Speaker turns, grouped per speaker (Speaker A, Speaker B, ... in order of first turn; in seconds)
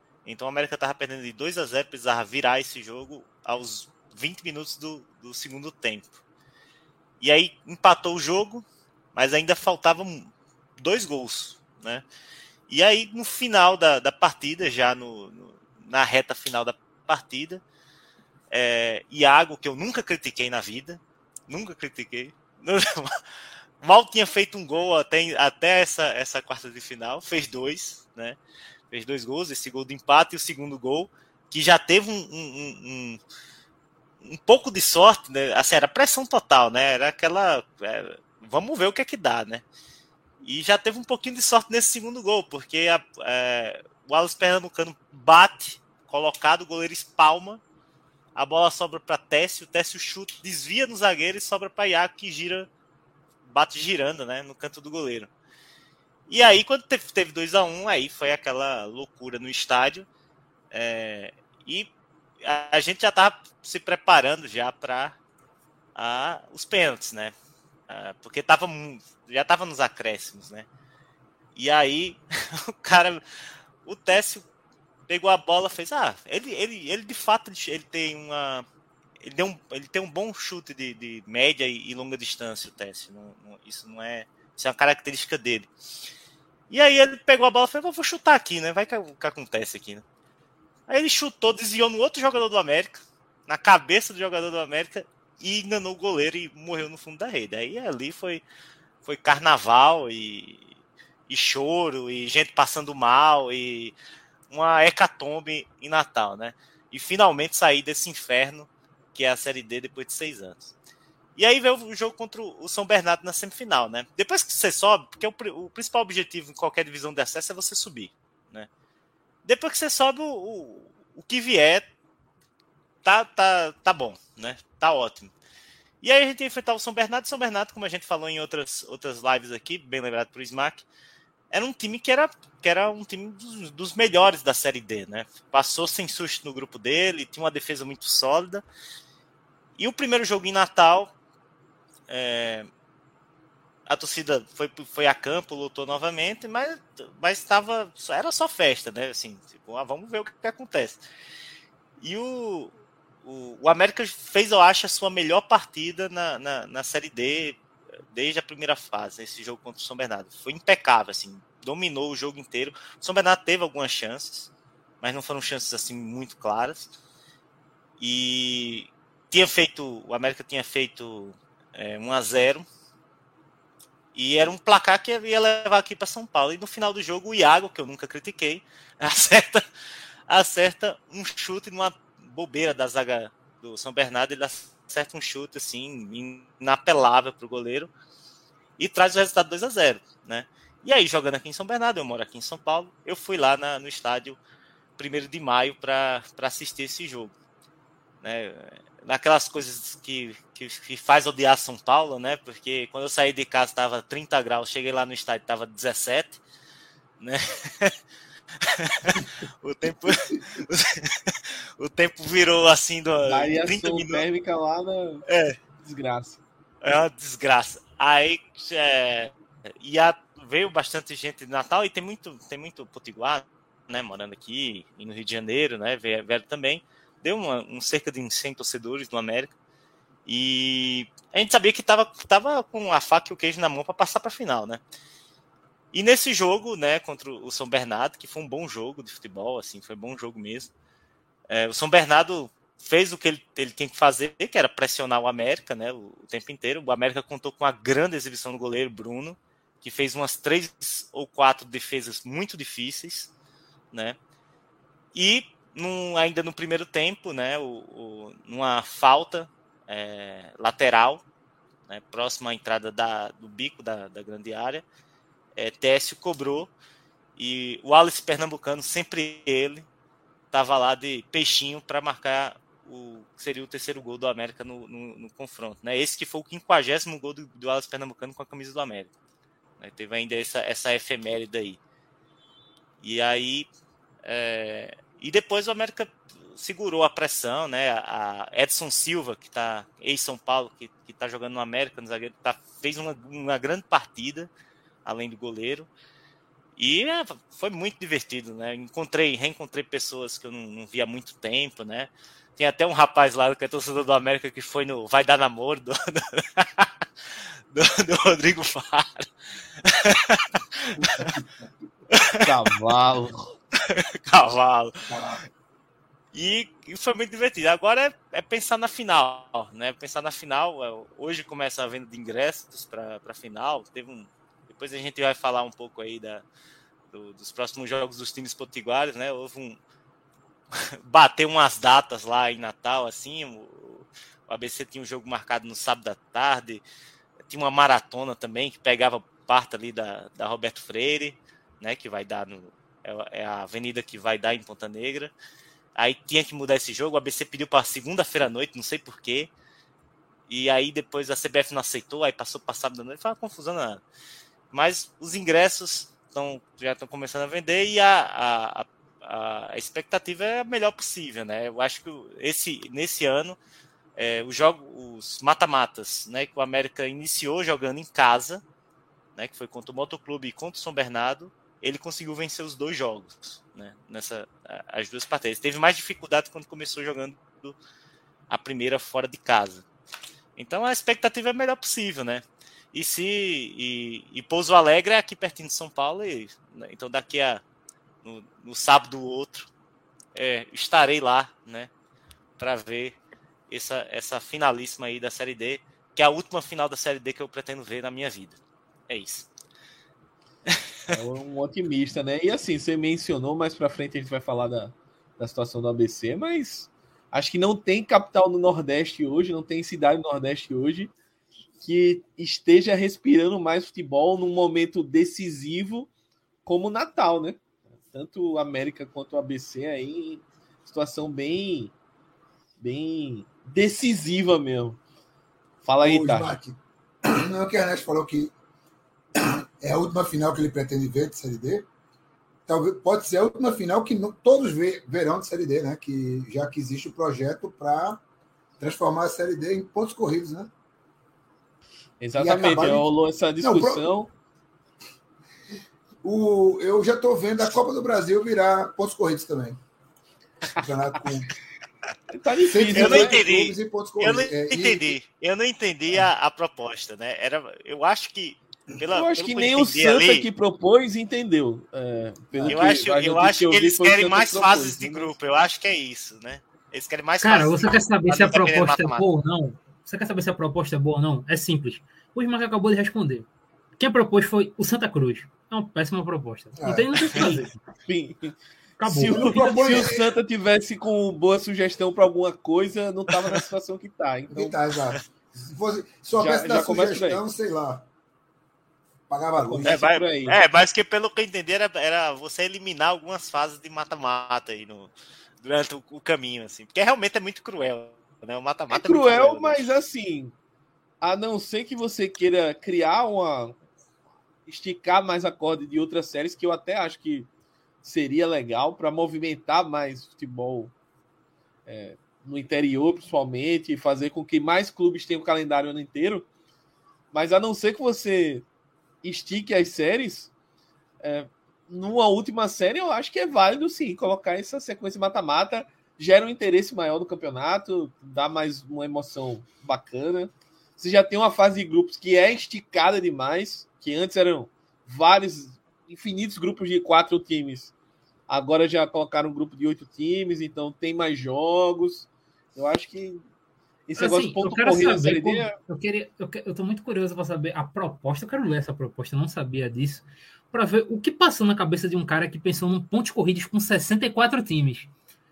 Speaker A: 0.2-6.2, 7.2-12.0, 12.7-17.6, 18.5-23.2, 23.8-28.4, 28.9-33.2, 34.2-39.6, 40.4-47.6, 48.3-52.7, 53.4-55.3, 56.3-60.1, 60.7-61.9, 62.4-65.2, 65.9-67.3, 67.9-70.7, 71.5-73.2, 73.8-74.5, 75.1-78.7, 79.2-85.7, 86.7-90.0, 90.9-98.4, 99.0-100.7, 101.3-104.0, 104.5-110.7, 111.3-118.7, 119.4-121.8, 123.0-125.3, 126.0-130.8, 131.5-138.6, 139.8-141.1, 142.1-142.7, 143.8-151.0, 152.0-166.9, 168.0-172.7, 174.1-179.6, 180.3-187.9, 188.8-194.4, 195.0-197.3, 198.2-206.4, 207.2-207.9, 208.6-214.2, 215.3-215.6, 216.8-229.5, 230.2-234.8, 235.9-240.7, 241.5-253.3, 253.9-254.2, 255.1-261.2, 261.9-264.8, 265.6-266.7, 267.4-269.9, 270.5-279.1, 279.8-281.8, 283.0-283.7, 284.2-294.5, 295.0-295.9, 296.8-306.9, 307.7-309.3, 309.8-311.3, 312.1-312.4, 313.9-315.0, 316.3-326.4, 327.1-329.8, 330.7-336.8, 337.5-345.3, 345.9-349.5, 350.5-354.0, 354.7-363.6, 364.1-368.6, 369.3-377.8, 378.5-379.8, 380.6-387.6, 388.2-389.7, 390.3-391.9, 392.6-393.2, 393.7-399.5, 452.9-460.5, 462.7-469.2, 489.8-499.9
Speaker B: 210.1-210.4, 310.9-311.7, 315.1-315.4, 426.0-428.5, 429.4-431.9, 432.7-438.2, 438.8-440.7, 442.4-443.1, 443.6-444.1, 446.2-449.8, 450.7-451.5, 452.7-455.2, 462.5-463.0, 476.8-477.4, 479.3-480.4, 484.5-488.1, 489.3-490.0
Speaker C: 213.3-215.2, 215.8-216.4, 312.4-313.5, 401.1-411.1, 411.8-416.1, 416.6-421.9, 422.8-425.0, 425.8-426.5, 442.2-444.3, 452.3-453.4, 459.1-465.3, 478.1-484.7, 486.4-487.4, 489.6-490.6, 498.9-500.5, 501.2-503.8, 504.6-507.5, 508.0-510.9, 511.9-516.5, 517.3-518.6, 519.2-520.5, 521.2-537.9, 538.5-543.4, 544.1-545.8
Speaker D: 467.4-473.5, 474.0-477.8, 479.0-479.8, 544.2-555.1